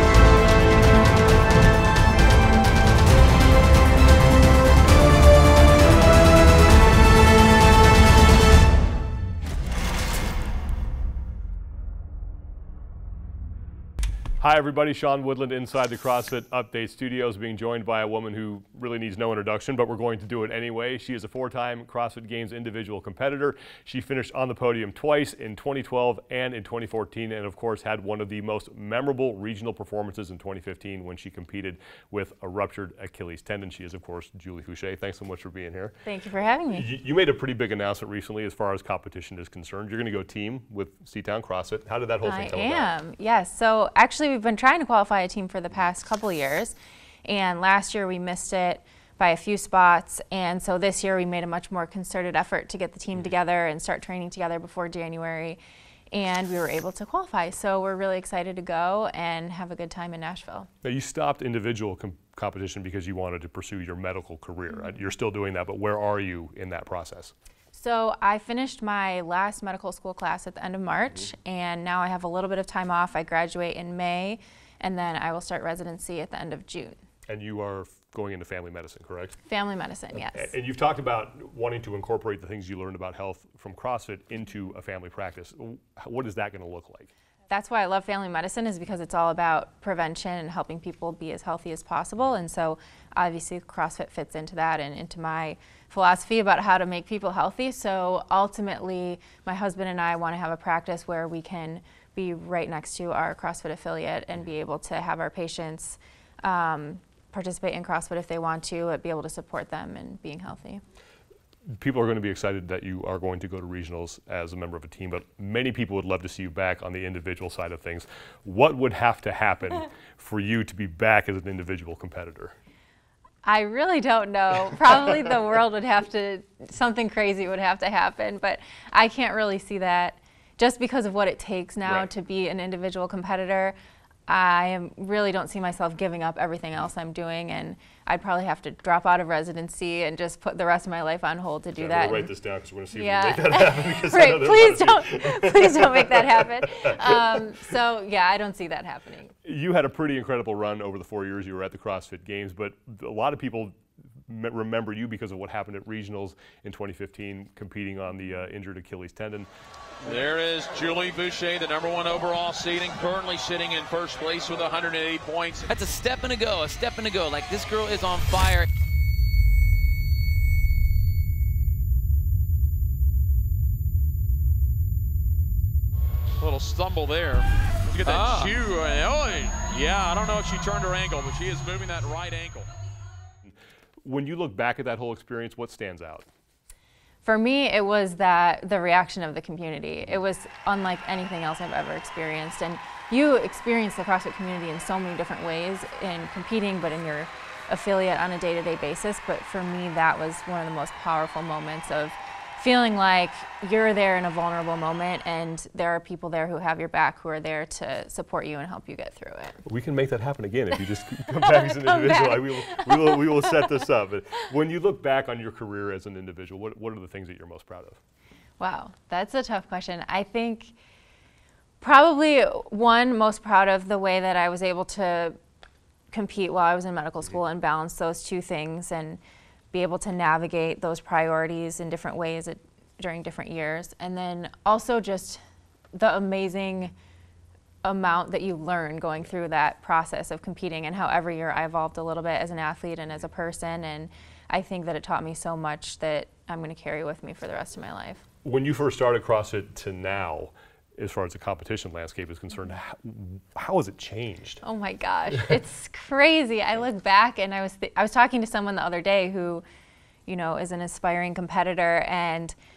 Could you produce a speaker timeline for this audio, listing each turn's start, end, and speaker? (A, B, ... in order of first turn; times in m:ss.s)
0:14.4-0:36.0 A
0:36.0-0:36.9 B
0:36.7-0:42.9 A
0:42.2-0:55.6 B
0:56.1-1:00.7 B
1:00.8-1:07.3 A
1:07.7-1:17.0 B
1:17.3-1:19.4 A
1:19.4-1:20.5 B
1:20.1-1:27.1 A
1:27.5-1:50.8 B
1:51.8-2:02.5 A
2:03.4-2:13.7 B
2:14.3-2:22.3 B
2:21.8-2:27.4 A
2:22.9-2:29.3 B
2:29.4-2:33.8 A
2:34.3-2:39.5 A
2:40.0-2:45.7 C
2:45.7-2:48.7 D
2:56.4-3:02.7 C
2:58.0-2:58.6 D
3:03.4-3:06.3 A
3:07.2-3:29.6 B
3:29.6-3:38.0 A
3:31.3-3:33.7 B
3:38.6-3:40.7 B
3:41.8-3:45.4 B
3:46.1-3:49.2 B
3:49.7-3:55.4 B
3:55.9-3:56.9 B
3:57.8-4:08.2 B
4:08.4-4:14.6 A
4:14.6-4:19.6 B
4:20.2-4:22.5 B